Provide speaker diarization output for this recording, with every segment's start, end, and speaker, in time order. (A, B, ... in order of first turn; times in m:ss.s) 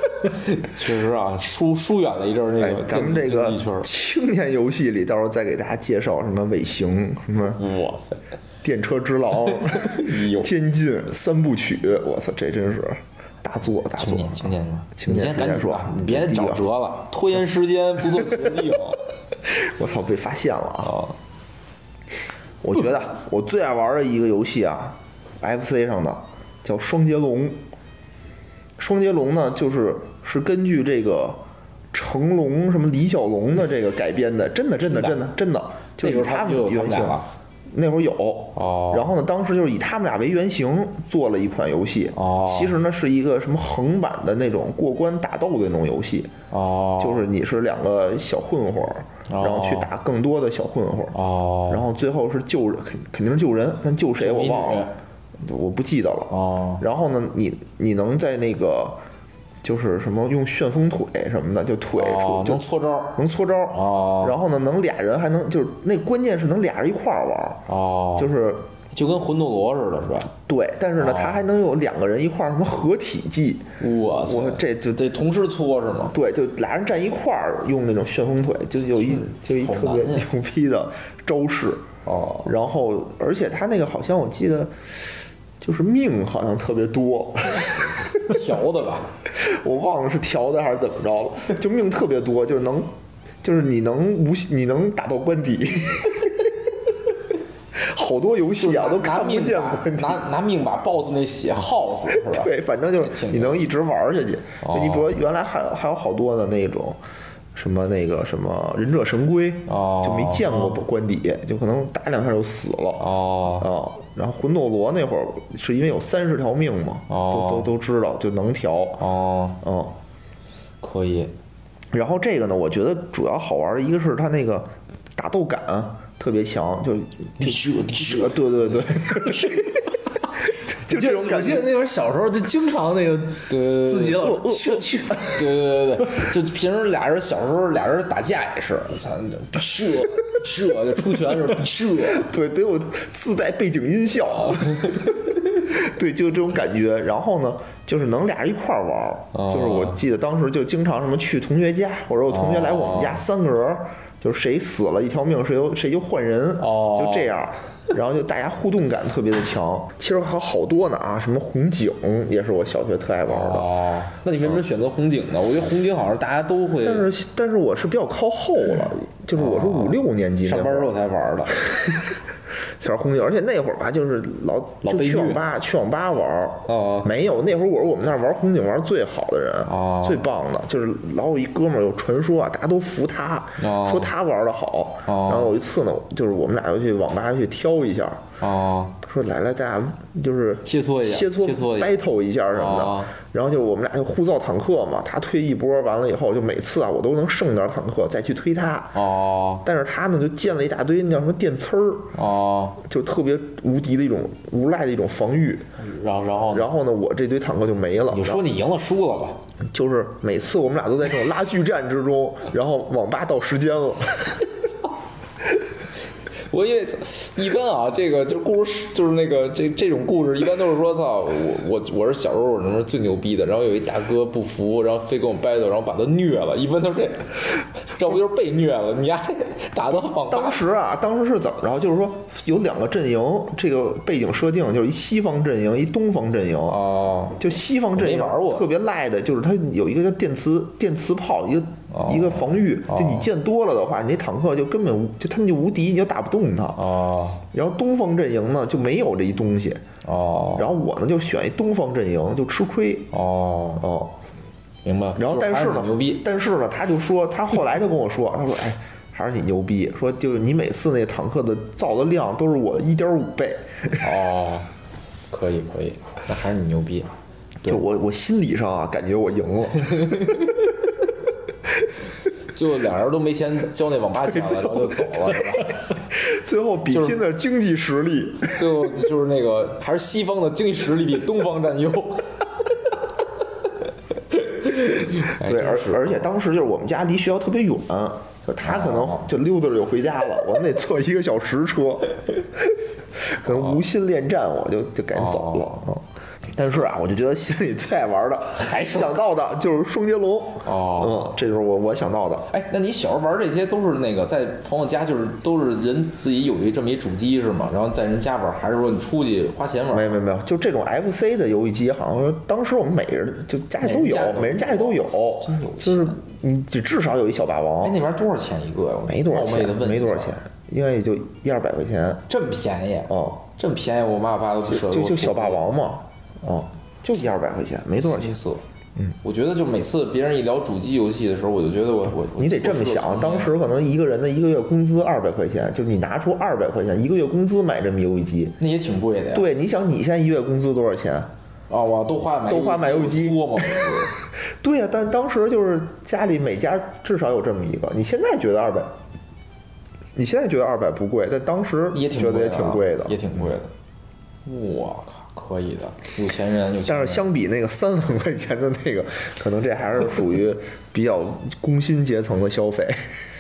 0:00.2-0:03.9 A
0:02.6-0:07.6 B
0:07.5-0:08.2 A
0:08.6-0:16.6 B
0:09.7-0:10.5 A
0:14.0-0:19.0 A
0:19.5-0:21.0 B
0:20.8-0:21.2 A
0:22.6-0:27.6 B
0:28.8-0:31.4 B
0:31.9-0:46.3 B
0:34.8-0:35.2 A
0:36.0-0:37.3 A
0:38.6-0:39.1 A
0:42.1-0:42.8 A
0:46.5-0:47.2 A
0:47.0-0:51.2 B
0:49.3-0:49.9 A
0:51.1-0:51.8 A
0:51.7-0:54.9 B
0:54.2-0:55.0 A
0:55.4-0:59.0 B
0:56.3-0:56.8 A
0:59.6-1:02.6 B
1:01.9-1:03.2 A
1:03.2-1:07.6 B
1:03.7-1:04.4 A
1:07.7-1:08.3 A
1:08.2-1:08.6 B
1:08.9-1:10.3 A
1:10.5-1:13.7 B
1:11.0-1:11.4 A
1:13.8-1:16.2 A
1:14.3-1:15.0 B
1:16.1-1:21.8 B
1:19.0-1:20.3 A
1:22.1-1:22.5 A
1:22.4-1:24.9 B
1:25.6-1:28.0 B
1:28.2-1:29.1 A
1:29.4-1:32.9 B
1:33.4-1:36.6 B
1:37.7-1:40.2 B
1:38.6-1:43.6 A
1:42.1-1:47.0 B
1:44.6-1:45.1 A
1:47.5-1:53.0 B
1:49.7-1:50.8 A
1:53.0-1:53.7 A
1:53.6-1:59.0 B
1:57.1-1:57.7 A
1:59.0-1:59.6 A
1:59.6-2:00.0 B
2:00.8-2:01.3 A
2:01.9-2:09.8 B
2:07.4-2:08.4 A
2:09.2-2:09.5 A
2:10.8-2:11.7 B
2:10.9-2:15.3 C
2:13.5-2:14.4 A
2:14.1-2:15.4 B
2:15.1-2:22.3 A
2:22.1-2:43.7 B
2:24.4-2:25.1 A
2:29.3-2:30.0 A
2:32.3-2:33.2 A
2:36.6-2:37.3 A
2:43.3-2:47.1 A
2:46.8-2:50.9 B
2:49.4-2:51.7 A
2:52.8-3:08.2 B
2:54.8-2:55.4 A
2:56.7-2:57.1 A
2:59.6-3:00.3 A
3:03.6-3:04.1 A
3:05.1-3:05.6 A
3:08.4-3:09.0 A
3:09.0-3:19.0 B
3:10.6-3:11.9 A
3:12.5-3:13.1 A
3:18.9-3:19.6 A
3:19.6-3:22.1 B
3:22.1-3:22.8 A
3:22.8-3:25.6 B
3:25.8-3:26.7 A
3:26.5-3:28.5 B
3:28.1-3:29.4 A
3:29.7-3:34.5 B
3:36.5-3:50.6 A
3:50.0-3:56.8 B
3:56.7-3:57.4 A
3:57.4-4:06.8 B
3:57.9-3:58.7 A
4:01.9-4:03.3 A
4:06.8-4:07.4 A
4:07.5-4:09.8 B
4:10.0-4:10.7 A
4:10.6-4:13.1 B
4:13.1-4:13.9 A
4:13.8-4:14.2 B
4:14.8-4:16.2 A
4:15.2-4:24.0 B
4:24.0-4:24.7 A
4:25.3-4:27.1 A
4:27.7-4:30.5 B
4:30.0-4:30.3 A
4:32.5-4:35.8 A
4:34.4-4:35.4 B
4:36.1-4:38.6 B
4:36.9-4:37.2 A
4:38.5-4:42.5 A
4:44.3-4:46.2 A
4:45.3-5:02.5 B
4:48.6-4:49.3 A
4:55.1-4:55.9 A
4:58.6-4:59.2 A
5:00.6-5:01.3 A
5:02.5-5:10.2 A
5:09.9-5:18.0 B
5:13.8-5:16.2 A
5:17.8-5:20.4 A
5:19.1-5:22.2 B
5:22.3-5:25.7 A
5:23.1-5:23.4 B
5:24.7-5:28.4 B
5:28.0-5:28.6 A
5:29.2-5:33.5 A
5:32.4-5:38.6 B
5:38.6-5:39.5 A
5:39.3-5:41.3 B
5:41.7-5:44.1 A
5:42.5-5:43.9 B
5:44.6-5:48.9 B
5:50.2-5:53.2 B
5:51.9-5:53.7 A
5:54.4-5:57.2 A
5:56.9-6:03.0 B